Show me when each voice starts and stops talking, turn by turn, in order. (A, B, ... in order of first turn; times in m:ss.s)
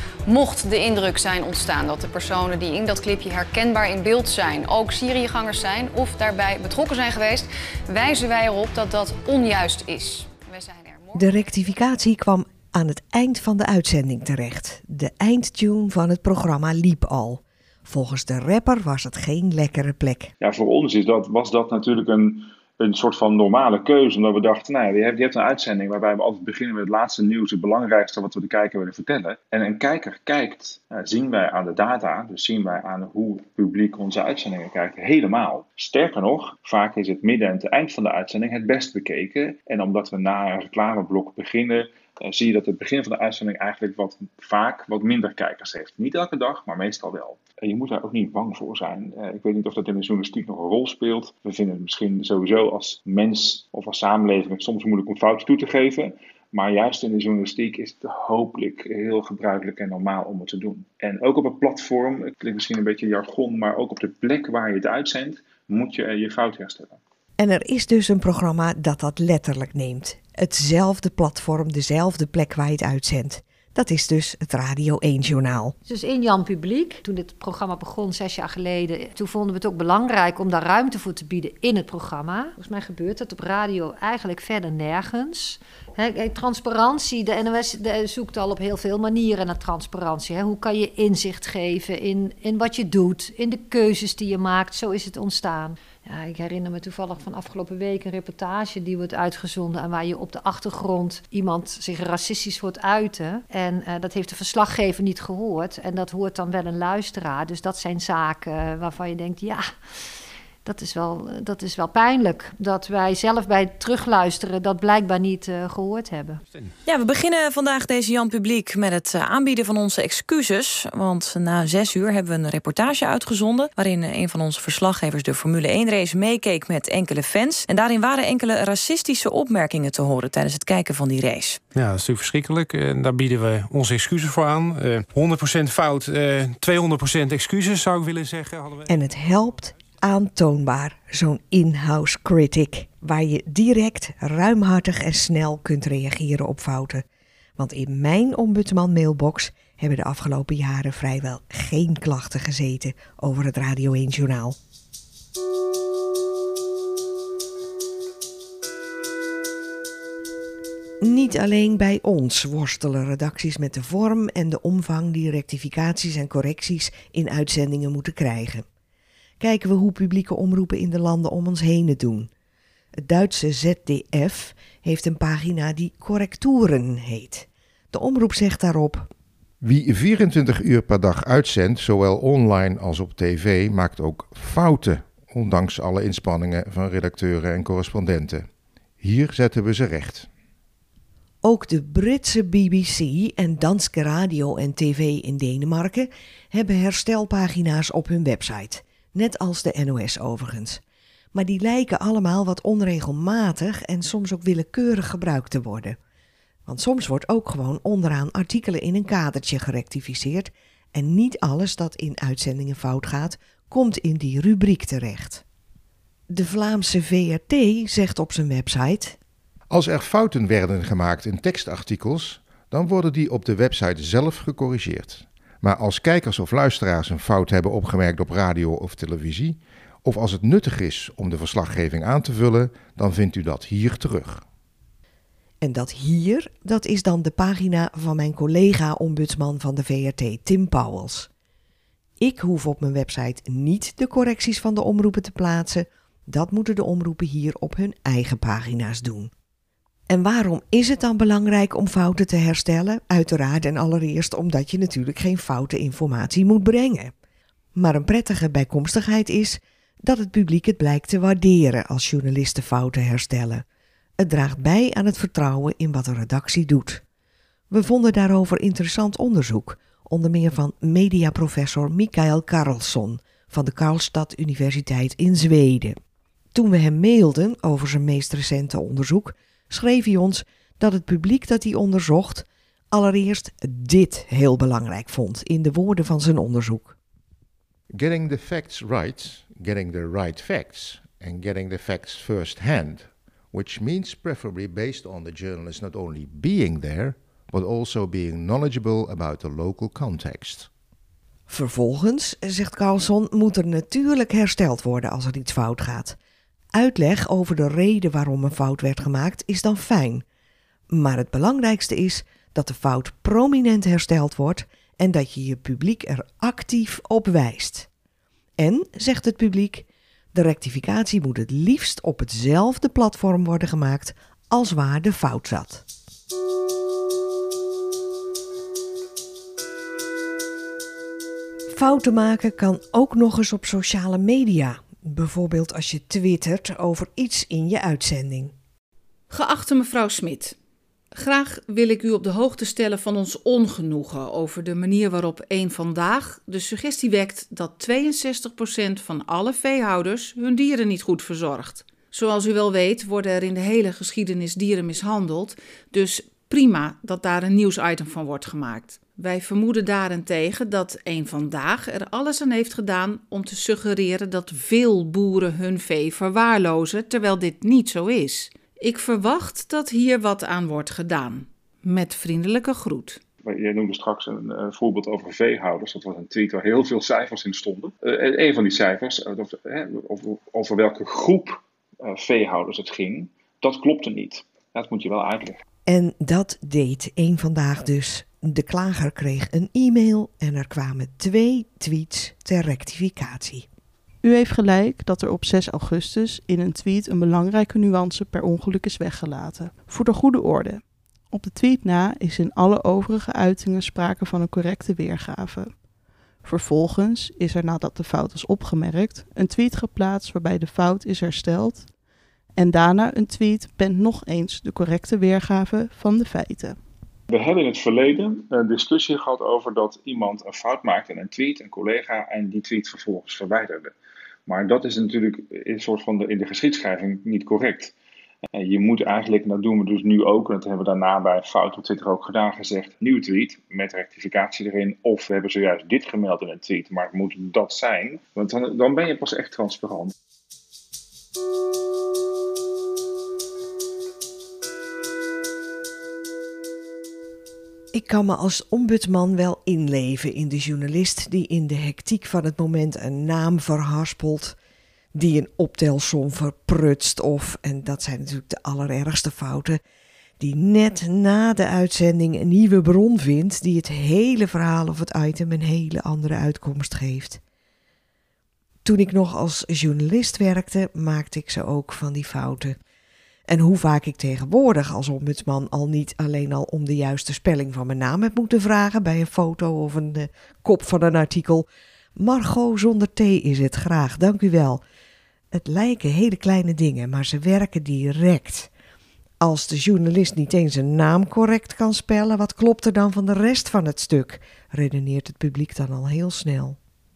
0:00.3-0:11.4 A
0:11.1-0:20.3 B
0:20.4-1:07.0 C
1:07.4-1:15.7 B
1:15.8-1:49.7 D
1:50.6-1:56.4 D
1:56.8-2:11.6 E
2:11.7-2:18.8 F
2:18.8-2:27.0 B
2:27.6-2:34.6 B
2:41.0-2:48.6 B
2:49.4-2:52.3 B
2:53.0-2:59.1 B
2:59.6-3:08.5 G
3:09.0-3:10.3 G
3:11.4-3:20.8 B
3:21.3-3:26.0 B
3:26.6-3:35.4 B
3:36.3-3:39.2 B
3:39.7-3:54.4 G
3:55.6-4:01.3 B
4:02.2-4:09.3 B
4:10.1-4:17.1 B
4:17.8-4:23.6 B
4:24.2-4:27.0 B
4:27.7-4:36.0 B
4:36.5-4:47.0 B
4:47.9-5:00.7 G
5:01.5-5:06.2 B
5:06.7-5:10.2 B
5:10.9-5:17.9 B
5:18.6-5:25.8 B
5:31.7-5:38.5 B
5:39.3-5:40.6 H
5:41.1-6:13.2 H
6:13.4-6:25.6 C
6:25.9-6:33.7 B
6:34.2-6:45.8 I
6:46.4-6:51.9 I
6:52.6-6:56.8 I
6:57.3-7:03.9 C
7:04.5-7:07.9 C
7:08.5-7:20.1 C
7:27.9-7:34.6 B
7:35.1-7:39.8 B
7:40.4-7:47.4 B
7:48.8-7:52.8 B
7:53.5-8:04.8 B
8:05.5-8:08.7 B
8:09.4-8:16.8 B